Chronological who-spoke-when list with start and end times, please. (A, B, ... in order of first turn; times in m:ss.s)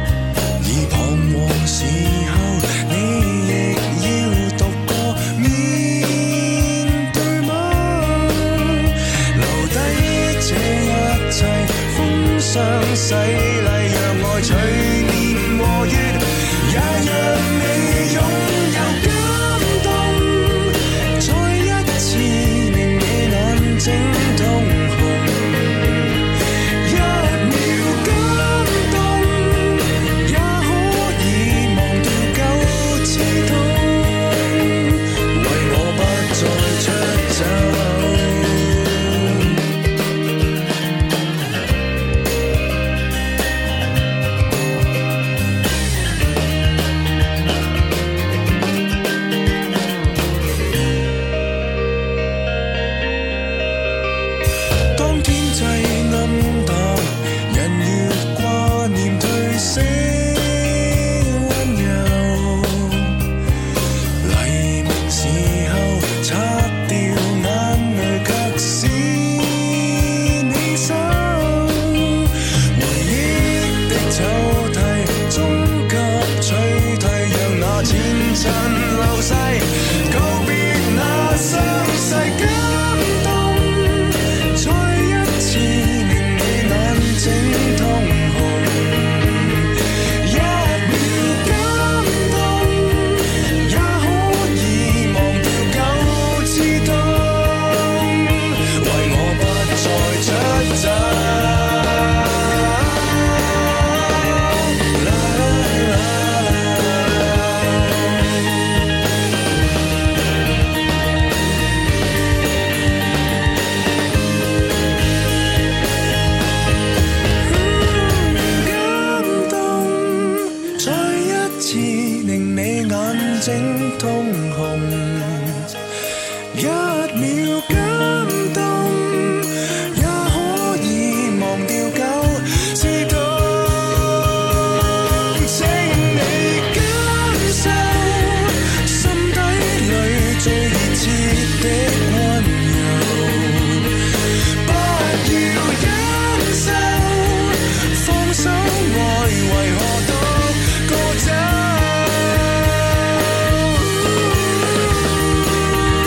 0:00.6-0:26.3 A
0:26.8-0:39.6 A
0:54.9-1:03.2 A
1:04.2-1:48.6 A
1:57.4-2:05.7 A
2:06.5-2:34.9 A